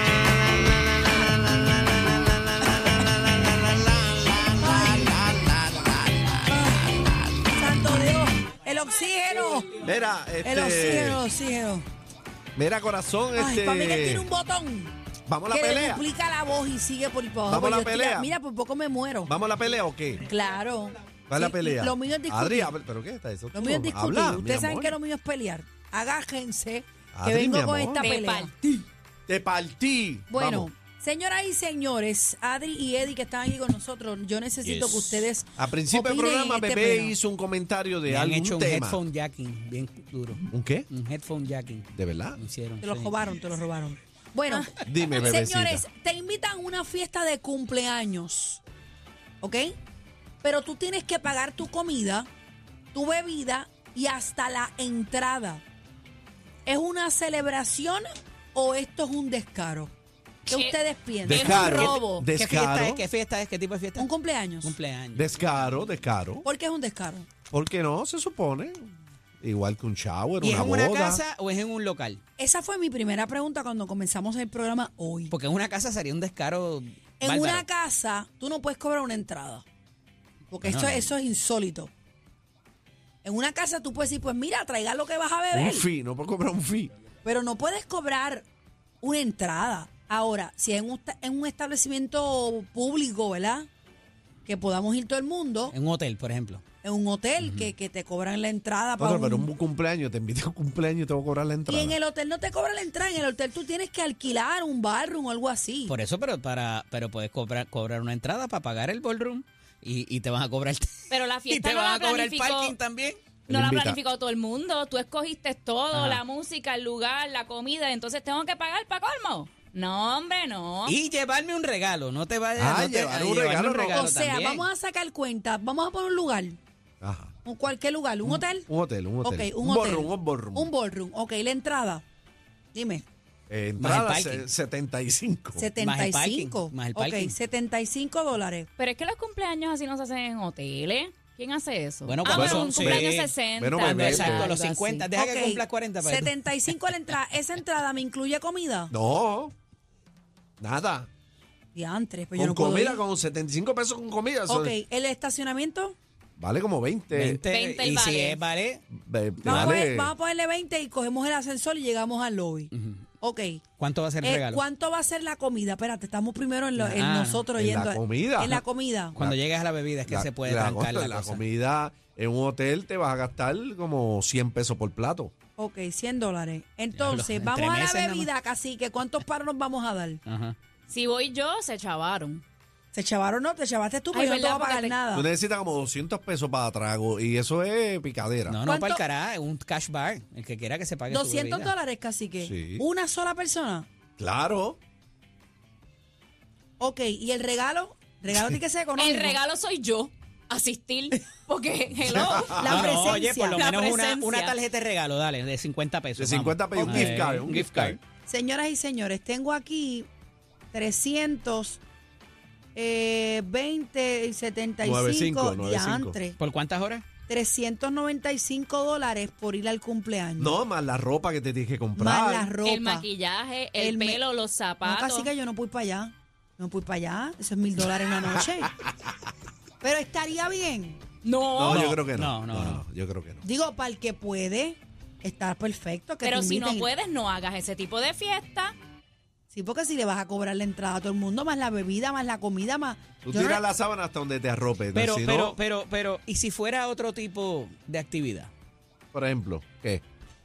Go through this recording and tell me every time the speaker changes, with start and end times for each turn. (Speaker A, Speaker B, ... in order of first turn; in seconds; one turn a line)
Speaker A: 4.5-5.1
Speaker B: 4.8-6.0
Speaker A: 6.5-9.8
Speaker B: 9.8-11.2
Speaker A: 10.4-11.8
Speaker B: 12.6-14.3
Speaker A: 13.3-14.9
Speaker B: 15.3-16.0
Speaker A: 15.5-19.3
Speaker B: 17.5-18.3
Speaker B: 19.3-20.2
Speaker A: 20.2-22.7
Speaker B: 21.3-25.0
Speaker A: 23.5-28.6
Speaker B: 27.1-28.1
Speaker C: 28.0-28.6
Speaker B: 29.3-30.7
Speaker A: 30.3-37.1
Speaker D: 34.6-35.3
Speaker B: 35.6-39.0
Speaker D: 38.1-43.1
Speaker B: 40.5-40.9
Speaker B: 42.0-42.4
Speaker A: 42.8-48.6
Speaker B: 44.8-45.9
Speaker A: 49.4-49.8
Speaker A: 50.4-52.3
Speaker A: 52.9-55.6
Speaker A: 56.7-59.9
Speaker A: 60.5-62.0
Speaker C: 60.5-62.3
Speaker B: 61.3-63.0
Speaker D: 61.3-64.1
Speaker A: 64.0-64.8
Speaker D: 64.6-65.6
Speaker B: 65.2-66.5
Speaker A: 66.4-67.3
Speaker B: 67.5-71.2
Speaker D: 70.4-72.2
Speaker A: 72.4-75.3
Speaker D: 75.3-77.7
Speaker A: 77.2-79.6
Speaker A: 80.5-81.9
Speaker D: 80.6-81.1
Speaker A: 83.2-85.9
Speaker B: 85.5-86.9
Speaker A: 87.2-88.5
Speaker A: 89.0-93.7
Speaker A: 94.5-95.8
Speaker D: 95.7-96.6
Speaker A: 96.8-99.5
Speaker D: 97.4-97.7
Speaker B: 99.0-102.0
Speaker A: 101.7-105.9
Speaker D: 105.9-113.2
Speaker C: 111.1-112.8
Speaker B: 113.5-114.0
Speaker C: 113.5-121.0
Speaker D: 115.9-116.2
Speaker D: 120.9-124.7
Speaker B: 122.6-124.1
Speaker A: 123.9-126.6
Speaker B: 127.0-127.3
Speaker A: 127.5-128.7
Speaker B: 128.6-130.7
Speaker A: 129.2-132.0
Speaker A: 132.7-133.1
Speaker B: 133.5-135.7
Speaker D: 133.8-134.5
Speaker A: 135.6-138.7
Speaker D: 135.8-137.4
Speaker C: 138.8-145.1
Speaker D: 142.1-146.7
Speaker B: 142.3-144.5
Speaker A: 145.1-148.9
Speaker B: 148.9-149.5
Speaker B: 150.6-151.1
Speaker A: 151.8-153.0
Speaker B: 152.3-154.8
Speaker A: 154.5-156.0
Speaker B: 156.4-157.4
Speaker D: 157.1-158.8
Speaker C: 157.5-158.4
Speaker B: 158.9-160.1
Speaker A: 159.4-163.6
Speaker D: 162.7-163.1
Speaker D: 163.8-164.6
Speaker A: 164.2-169.1
Speaker D: 166.8-167.5
Speaker B: 167.6-168.6
Speaker D: 169.1-171.4
Speaker B: 170.1-175.3
Speaker A: 175.6-180.2
Speaker D: 176.9-178.3
Speaker D: 180.3-180.6
Speaker C: 180.9-182.4
Speaker A: 182.9-185.3
Speaker C: 184.1-185.0
Speaker B: 185.1-188.6
Speaker D: 188.5-191.7
Speaker A: 188.6-189.0
Speaker A: 191.1-193.9
Speaker B: 192.4-192.8
Speaker B: 194.2-194.8
Speaker A: 196.8-199.4
Speaker C: 199.0-202.8
Speaker B: 202.1-202.8
Speaker A: 202.1-203.6
Speaker D: 202.6-208.0
Speaker C: 203.5-204.6
Speaker B: 206.2-208.0
Speaker A: 208.3-210.1
Speaker A: 210.7-211.8
Speaker A: 212.8-216.4
Speaker B: 214.8-216.2
Speaker D: 216.4-217.1
Speaker A: 217.3-220.6
Speaker B: 220.4-222.6
Speaker A: 222.0-223.1
Speaker C: 222.6-225.3
Speaker A: 223.8-224.2
Speaker A: 224.8-228.7
Speaker A: 229.8-231.0
Speaker C: 231.2-231.8
Speaker B: 231.6-233.4
Speaker D: 231.7-232.8
Speaker A: 233.4-236.9
Speaker C: 236.2-238.8
Speaker A: 239.5-243.6
Speaker B: 243.2-245.6
Speaker D: 244.9-248.5
Speaker B: 249.1-250.0